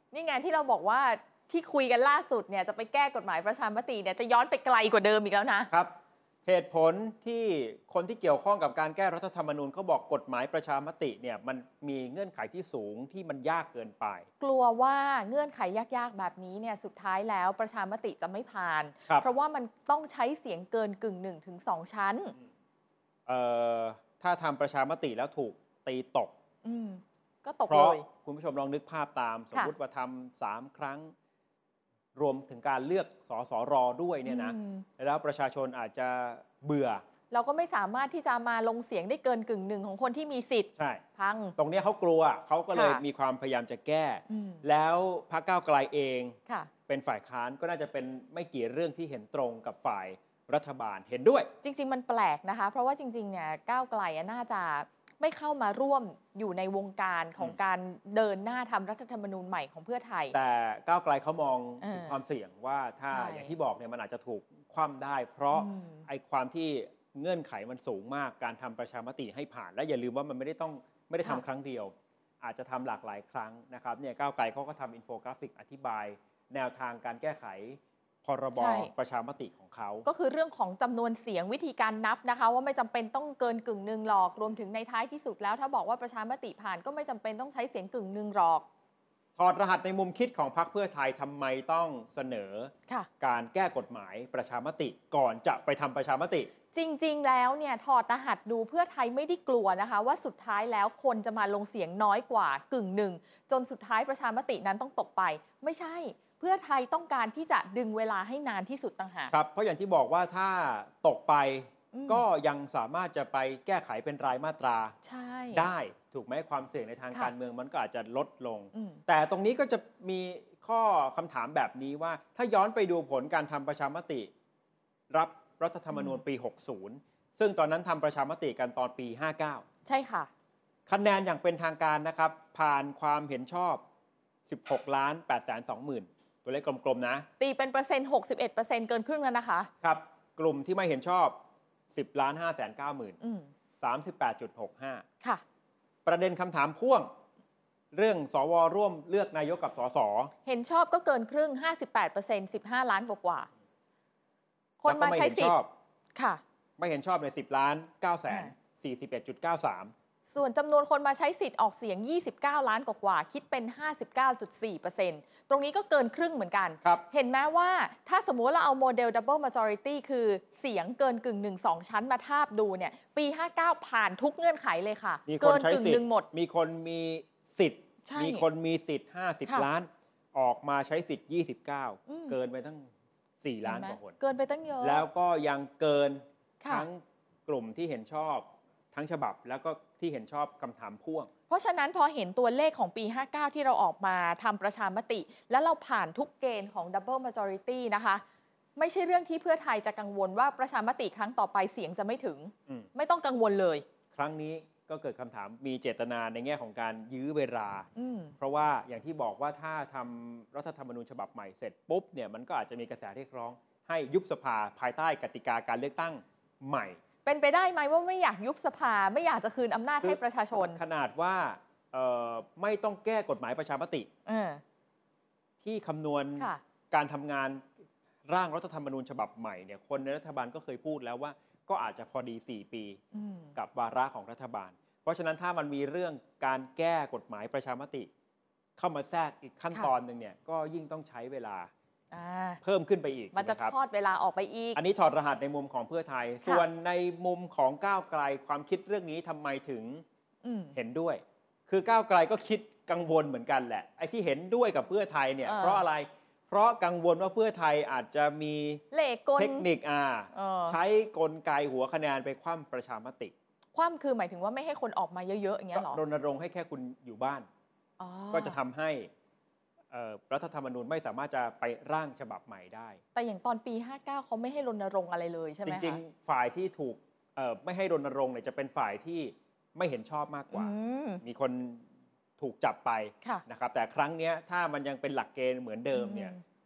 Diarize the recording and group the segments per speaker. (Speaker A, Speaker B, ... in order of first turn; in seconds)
Speaker A: 0.1-5.7, 14.4-22.4, 26.6-28.1, 34.2-34.9, 37.3-41.5, 42.7-43.0, 44.3-44.6, 51.6-60.4, 61.8-62.2, 63.1-63.5, 65.5-66.0, 78.5-78.9, 80.0-88.7, 96.7-109.3, 111.9-112.2, 115.0-115.7, 118.7-119.0, 125.9-126.2, 129.8-130.3, 137.4-139.7, 143.2-143.5, 150.4-153.5, 154.8-155.6, 156.1-156.4, 160.3-176.2, 178.0-178.4, 182.1-182.4, 183.6-185.1, 186.6-186.8, 191.5-198.2, 198.8-203.8, 207.9-208.3, 217.2-220.8, 224.2-224.6, 233.1-233.5, 242.1-242.6, 243.3-244.8, 250.4-250.7, 255.4-255.8, 258.9-259.7, 260.3-260.8, 263.7-266.0, 268.0-268.6, 273.1-276.0, 280.5-281.2, 285.9-286.4
Speaker B: 5.7-14.3, 23.2-26.3, 27.7-31.1, 32.1-37.0, 40.8-41.0, 41.6-51.5, 60.3-80.1, 89.3-96.5, 109.3-115.0, 115.5-124.3, 125.1-129.6, 130.9-133.8, 134.4-137.2, 139.8-141.4, 141.9-143.2, 143.8-145.1, 146.0-147.1, 147.9-150.3, 154.8-155.7, 156.8-159.9, 175.2-184.2, 184.8-191.3, 204.1-217.0, 220.7-224.1, 225.6-227.7, 228.3-233.0, 233.6-238.1, 238.8-241.7, 242.6-243.7, 244.7-250.0, 250.7-258.8, 259.4-263.3, 265.7-267.5, 268.3-269.1, 269.9-273.0, 275.6-281.9, 282.4-286.3